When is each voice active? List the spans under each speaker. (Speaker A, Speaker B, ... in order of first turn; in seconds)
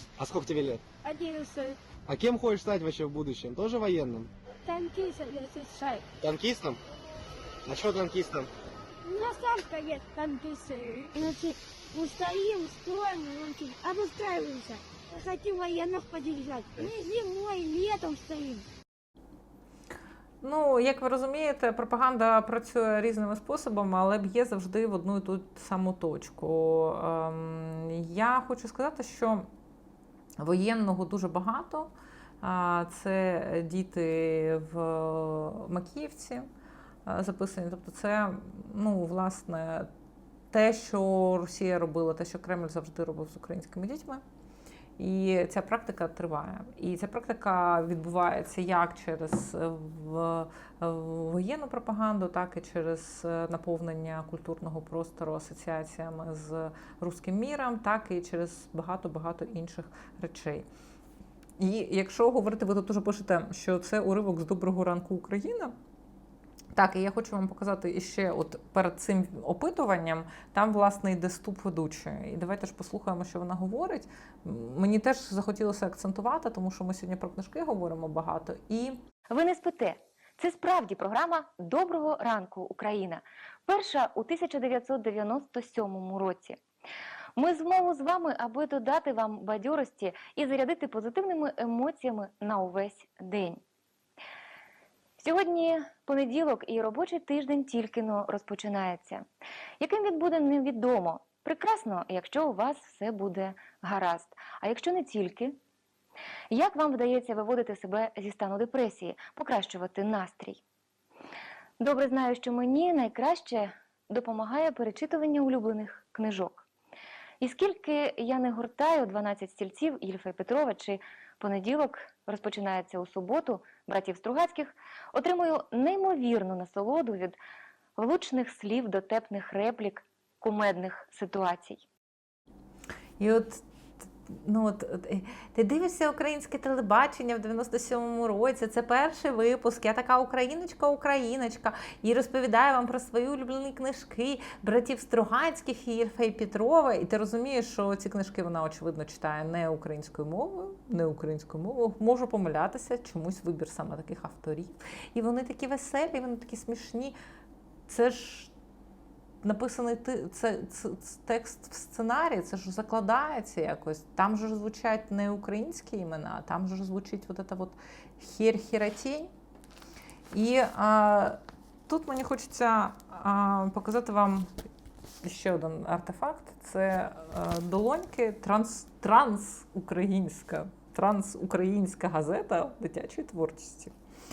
Speaker A: 0.2-0.8, 2.1-4.3, 6.2-6.8, 7.7-8.5
Speaker B: 1.1-1.8, 4.7-6.0, 9.1-18.6
Speaker C: 20.4-29.5, 30.4-31.9, 32.4-36.5, 37.1-39.9, 40.5-44.2, 45.0-60.7, 61.6-65.7, 66.8-79.0, 133.2-157.2, 157.9-158.5, 159.4-169.3, 170.3-174.5, 175.2-183.9
Speaker D: 79.3-86.6, 87.4-93.6, 95.2-99.2, 99.8-105.6, 106.5-110.6, 111.8-116.7, 117.4-127.4, 128.0-131.8